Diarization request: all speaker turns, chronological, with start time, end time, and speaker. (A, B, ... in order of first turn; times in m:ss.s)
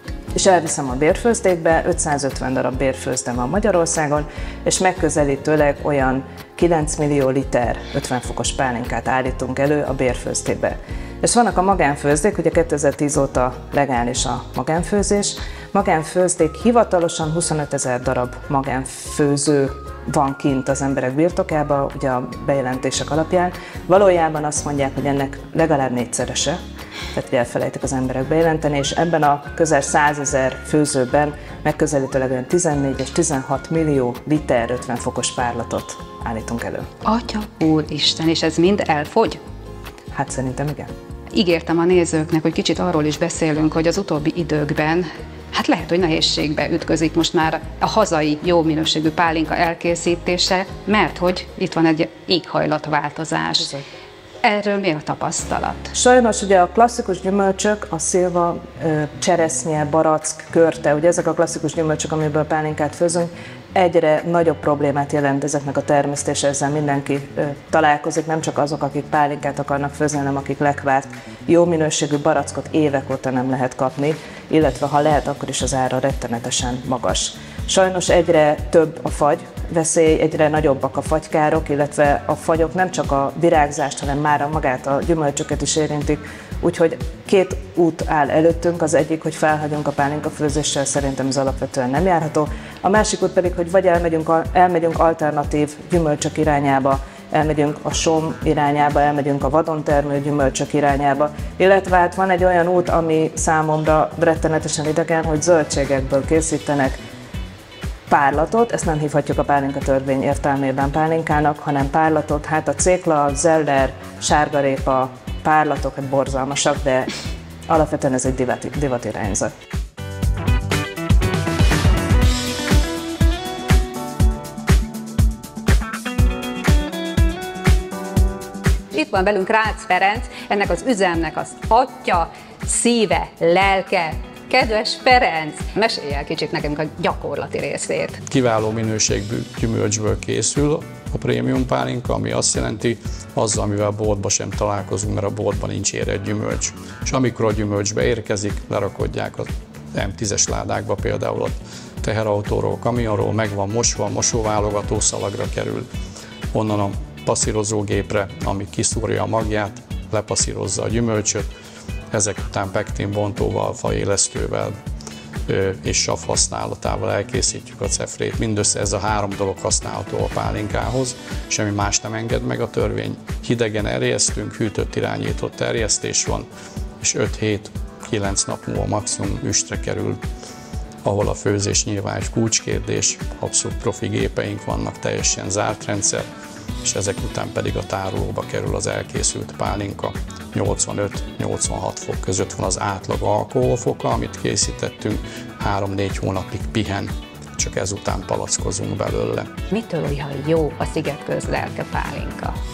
0:00.3-0:26.6 A
0:27.1-0:36.8 A
0:37.0-0:39.4 B
0:40.1-0:40.9 A
0:41.3-0:53.7 B
0:54.4-0:55.9 B
0:55.9-1:47.0 A
1:48.1-1:57.1 A
1:57.7-1:59.5 A
2:08.9-2:18.2 B
2:18.3-2:35.8 C
2:36.5-2:41.5 C
2:42.1-2:44.7 C
2:45.5-2:56.5 C
2:57.0-3:00.2 C
3:01.0-3:06.3 C
3:06.8-3:19.5 C
3:19.7-3:22.5 B